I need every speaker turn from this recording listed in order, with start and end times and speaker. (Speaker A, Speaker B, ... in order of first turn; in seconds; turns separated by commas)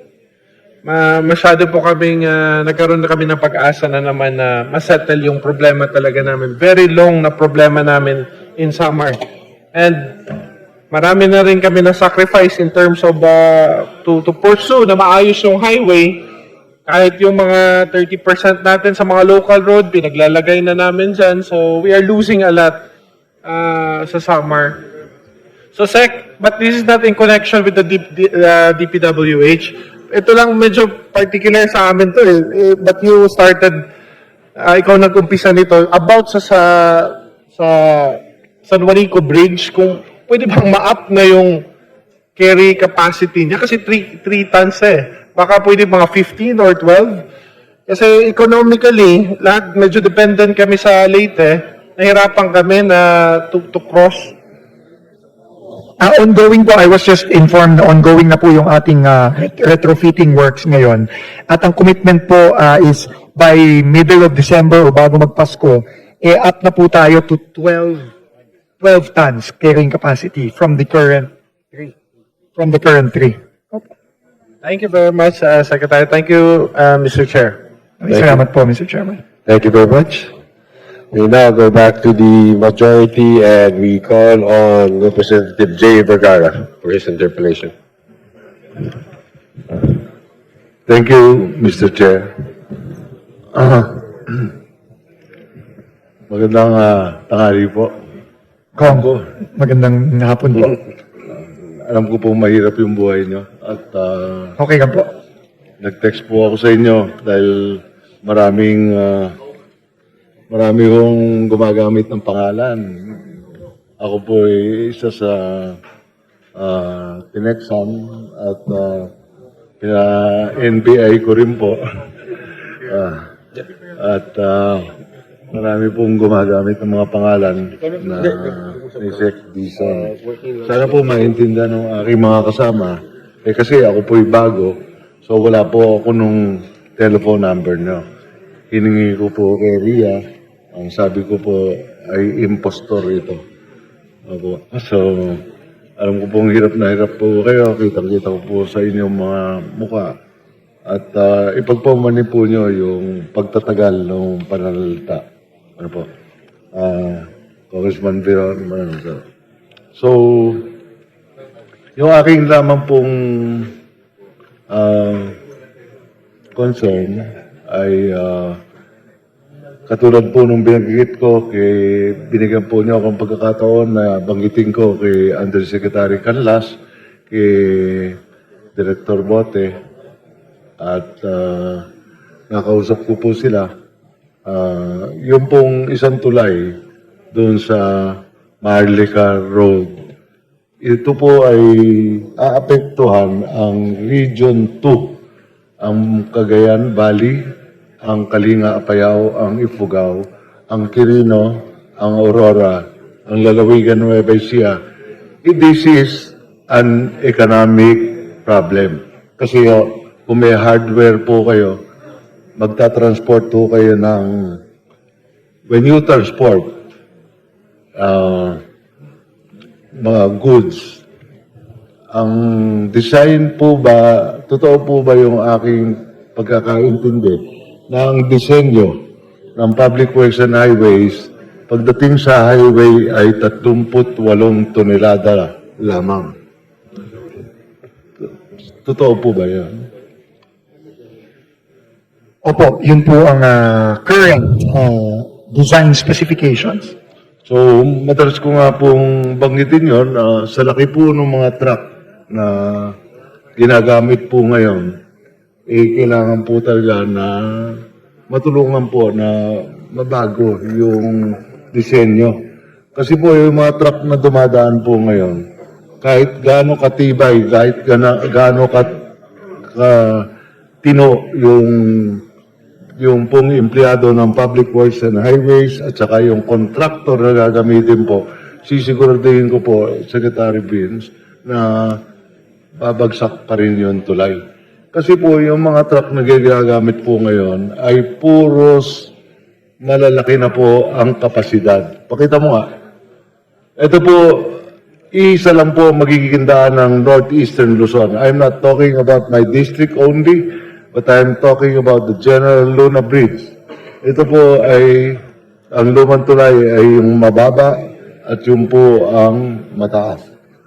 Speaker A: 0.8-9.2, Speaker A: 9.7-10.1, Speaker A: 10.9-16.2, Speaker A: 16.9-22.8, Speaker A: 23.4-24.8, Speaker A: 25.8-33.8, Speaker A: 34.6-41.6, Speaker A: 42.4-47.2, Speaker A: 47.9-54.3, Speaker B: 56.0-68.1, Speaker B: 68.8-71.9, Speaker B: 72.6-73.9, Speaker A: 74.6-77.6, Speaker B: 78.0-79.2, Speaker C: 78.1-78.4, Speaker C: 79.5-80.3, Speaker C: 81.1-87.7, Speaker D: 90.9-92.3, Speaker D: 93.5-94.5, Speaker D: 96.3-97.9, Speaker B: 98.8-100.8, Speaker D: 98.8-99.2, Speaker D: 101.3-104.6, Speaker B: 104.6-105.1, Speaker D: 105.8-109.4, Speaker D: 110.5-113.3, Speaker D: 114.0-115.8, Speaker D: 116.6-119.1, Speaker D: 119.8-121.8, Speaker D: 122.8-123.2, Speaker D: 124.0-124.9, Speaker D: 125.5-138.0, Speaker D: 138.7-140.2, Speaker D: 140.7-143.4, Speaker D: 144.3-145.4, Speaker D: 146.0-150.1, Speaker D: 150.9-155.2, Speaker D: 155.8-156.1, Speaker D: 156.8-159.2, Speaker D: 159.9-160.7, Speaker D: 162.0-163.7, Speaker D: 164.7-165.4, Speaker D: 166.6-168.6, Speaker D: 169.9-176.8, Speaker D: 177.3-178.2, Speaker D: 178.8-179.8, Speaker D: 180.8-181.9, Speaker D: 182.5-183.7, Speaker D: 184.4-186.8, Speaker D: 187.3-190.0, Speaker D: 190.8-195.2, Speaker D: 195.8-197.4, Speaker D: 198.1-204.8, Speaker D: 205.4-211.8, Speaker D: 212.6-214.6, Speaker D: 215.7-216.7, Speaker D: 218.0-218.6, Speaker D: 220.0-221.0, Speaker D: 222.1-229.0, Speaker D: 229.6-236.3, Speaker D: 238.8-239.9, Speaker B: 242.4-246.9, Speaker D: 247.5-252.9, Speaker D: 253.6-254.9, Speaker D: 255.7-262.4, Speaker D: 262.9-265.4, Speaker D: 266.0-268.9, Speaker D: 269.7-270.3, Speaker D: 270.8-272.2, Speaker D: 273.0-282.0, Speaker D: 282.8-284.4, Speaker D: 284.9-289.1, Speaker D: 289.8-292.6, Speaker D: 293.8-294.6, Speaker D: 295.1-303.5, Speaker D: 304.0-305.2, Speaker D: 305.7-310.2